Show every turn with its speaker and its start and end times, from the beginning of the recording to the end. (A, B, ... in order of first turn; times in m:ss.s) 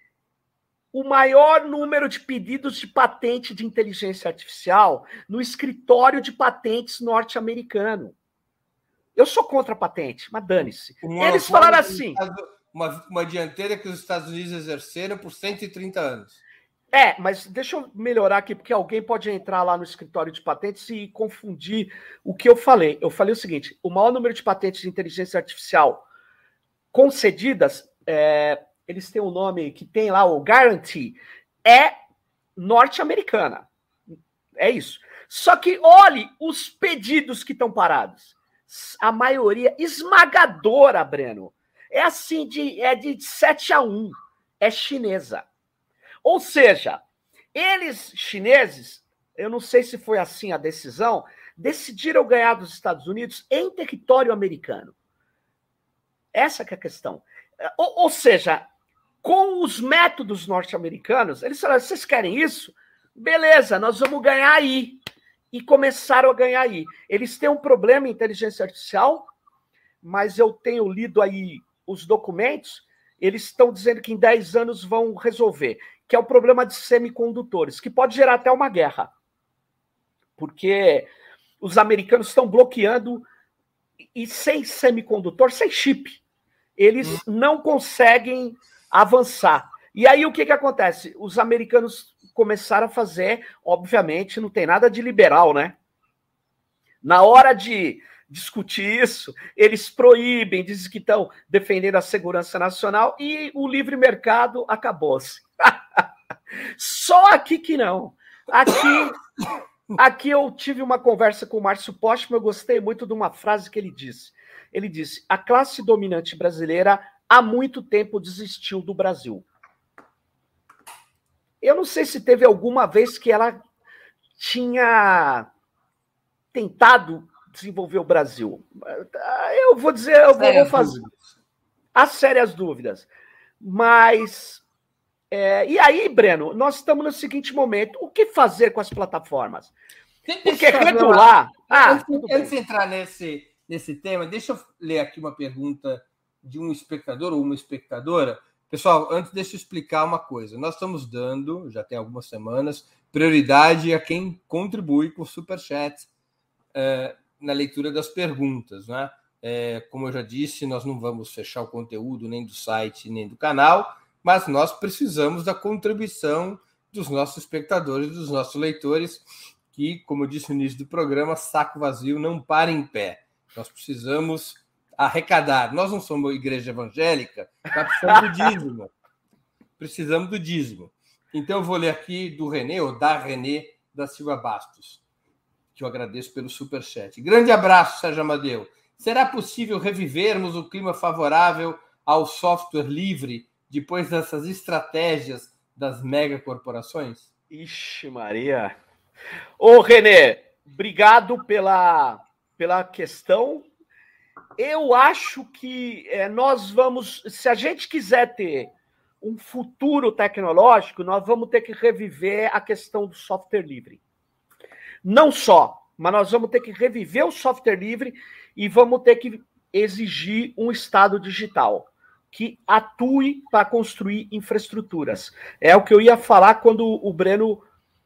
0:00.9-0:08.2 A
0:09.2-0:12.2 A
0:11.0-0:16.4 B
0:16.9-0:26.0 A
0:26.9-0:31.9 A
0:32.6-0:33.7 A
0:34.6-0:45.4 A
0:46.2-0:47.0 A
0:47.5-0:54.9 A
0:56.3-0:58.6 A
0:59.2-1:05.0 A
1:05.5-1:09.3 A
1:10.0-1:19.1 A
1:20.4-1:21.1 A
1:21.6-1:23.2 A
1:24.1-1:26.2 A
1:26.8-1:35.8 A
1:37.0-1:46.0 A
1:46.8-1:49.2 A
1:50.0-1:59.4 A
2:01.6-2:03.6 A
2:04.4-2:05.5 A
2:06.5-2:11.0 A
2:10.4-2:11.3 B
2:11.9-2:13.1 A
2:13.6-2:14.6 A
2:15.3-2:19.7 A
2:20.3-2:36.1 B
2:20.4-2:22.5 A
2:36.7-2:58.9 B
2:58.1-2:58.5 A
2:59.8-3:05.0 B
3:05.7-3:17.3 B
3:17.5-3:18.7 A
3:19.6-3:23.7 A
3:24.6-3:34.0 A
3:35.0-3:47.6 A